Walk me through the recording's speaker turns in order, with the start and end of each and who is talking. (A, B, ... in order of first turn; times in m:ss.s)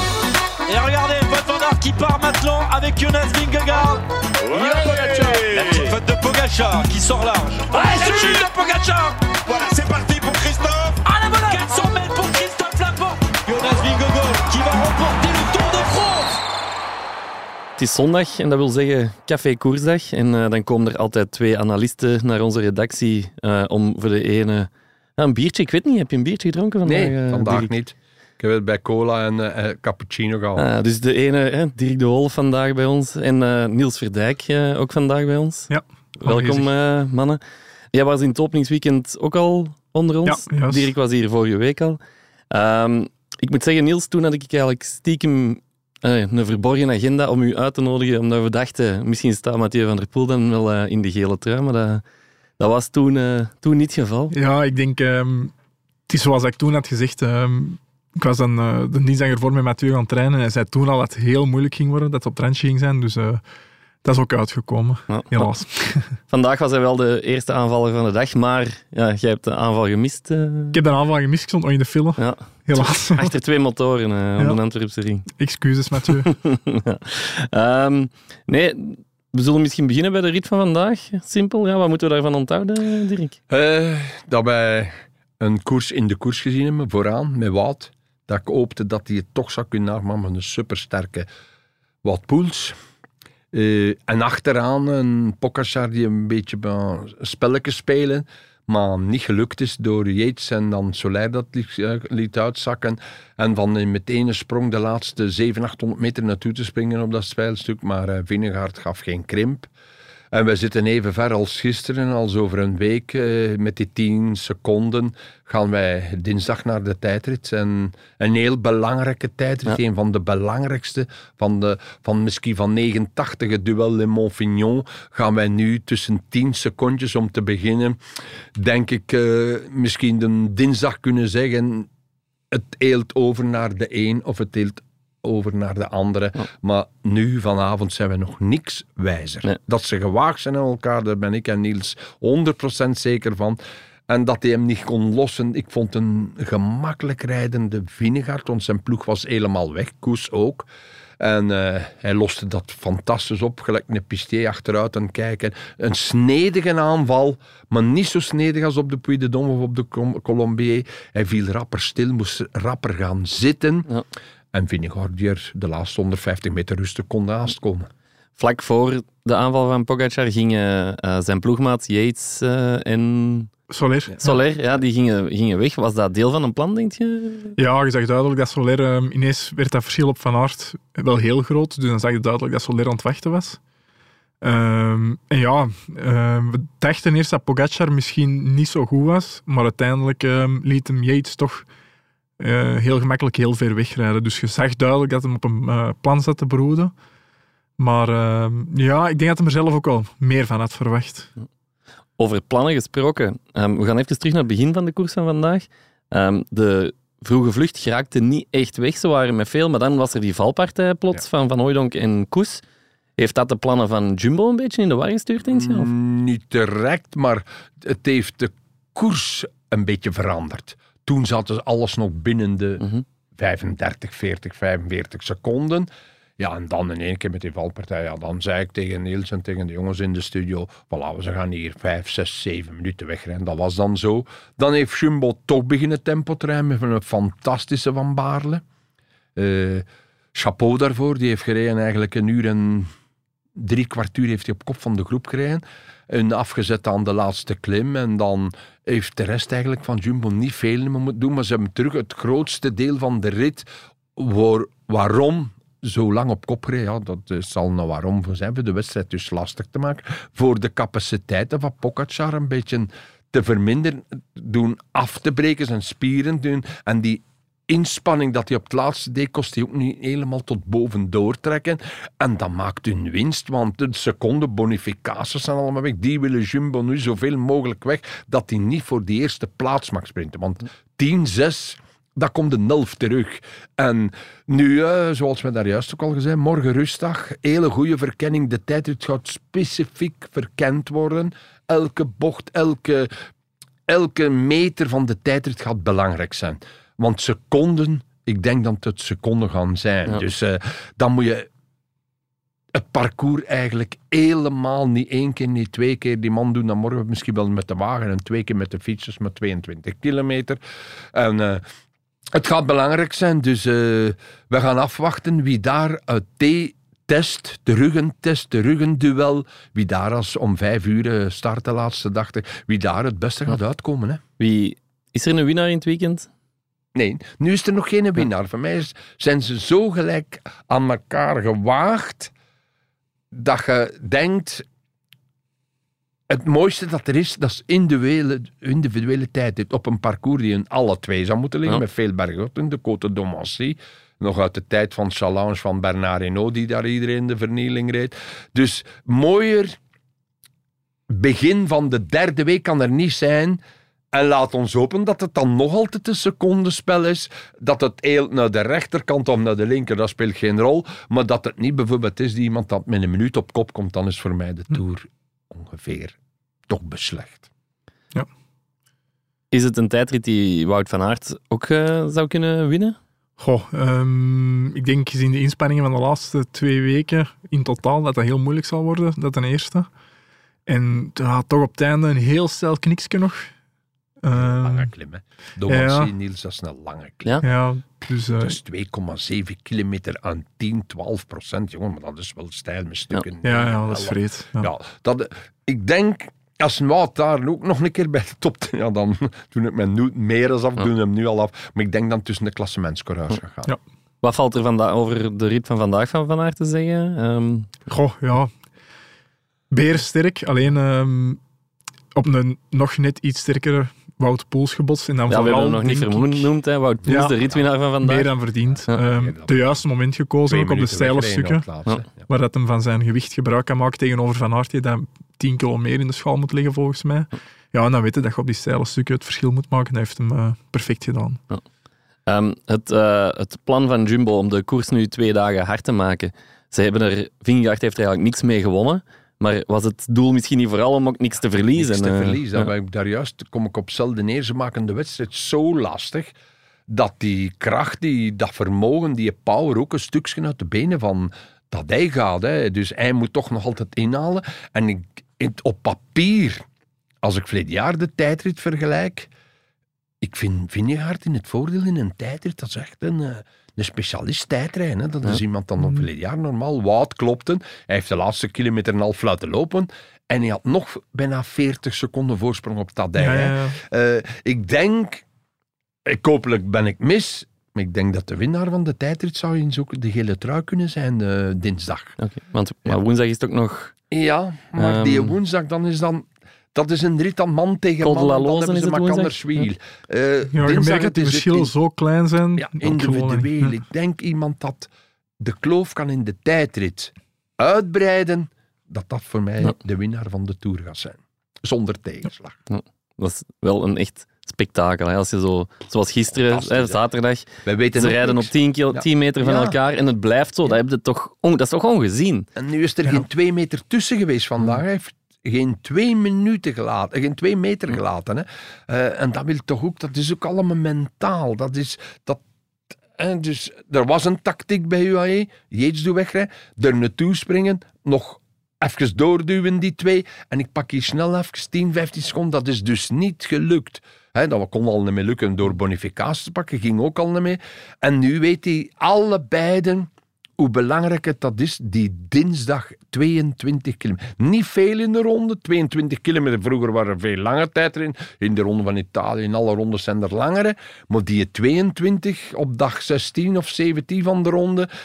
0:00.7-0:16.4 A
0:17.8-0:27.7 B
0:26.8-0:30.6 C
0:30.6-0:37.4 B
0:35.7-0:36.6 D
0:37.9-0:42.0 B
0:40.2-0:40.9 D
0:42.5-0:52.0 B
0:52.6-0:54.3 B
0:54.3-0:55.5 D
0:56.1-1:03.4 D
1:04.0-1:06.1 D
1:05.1-1:05.5 B
1:06.3-1:10.8 B
1:10.7-1:13.3 D
1:12.2-1:15.3 B
1:15.3-1:16.3 D
1:16.2-1:23.4 B
1:23.5-1:31.3 C
1:32.0-1:32.8 C
1:33.5-1:49.7 C
1:50.3-2:08.0 C
2:08.5-2:11.9 C
2:12.5-2:30.7 C
2:31.2-2:43.9 C
2:44.5-2:47.9 C
2:48.4-2:53.5 B
2:53.7-2:54.3 D
2:54.2-2:57.6 B
2:57.6-3:03.6 D
3:04.4-3:11.7 D
3:12.4-3:16.9 D
3:17.8-3:21.3 D
3:22.2-3:32.6 B
3:33.2-3:35.9 B
3:35.5-3:58.6 C
3:59.4-4:02.9 C
4:03.6-4:53.1 C
4:53.9-5:01.5 C
5:02.7-5:10.6 C
5:11.1-5:11.6 C
5:12.3-5:24.2 C
5:24.4-5:26.3 B
5:26.9-5:32.3 C
5:33.3-5:34.6 C
5:36.3-5:49.8 C
5:51.1-5:53.6 C
5:54.1-6:06.2 C
6:06.7-6:07.5 C
6:09.5-6:13.0 B
6:13.4-6:19.9 D
6:20.7-6:23.5 D
6:24.2-6:24.9 D
6:24.3-6:27.4 C
6:25.7-6:26.1 D
6:27.4-6:28.6 D
6:28.4-6:43.7 C
6:33.4-6:34.7 D
6:44.2-6:47.7 B
6:47.9-6:48.5 D
6:49.7-6:51.4 D
6:52.1-6:56.5 D
6:55.3-6:58.3 B
6:57.0-6:57.4 D
6:58.0-7:01.7 D
6:58.9-6:59.7 C
7:00.5-7:02.3 C
7:02.3-7:11.4 D
7:12.2-7:22.7 B
7:21.8-7:26.3 C
7:26.9-7:36.6 C
7:37.2-7:39.3 C
7:40.2-7:55.2 C
7:53.2-7:53.8 D
7:56.0-8:02.2 C
8:02.2-8:03.9 B
8:04.1-8:11.7 C
8:04.8-8:05.4 B
8:08.0-8:09.7 B
8:10.5-8:13.8 D
8:12.6-8:22.6 C
8:22.7-8:32.5 B
8:26.4-8:27.0 C
8:27.6-8:29.8 C
8:32.6-8:42.4 C
8:43.1-9:14.9 C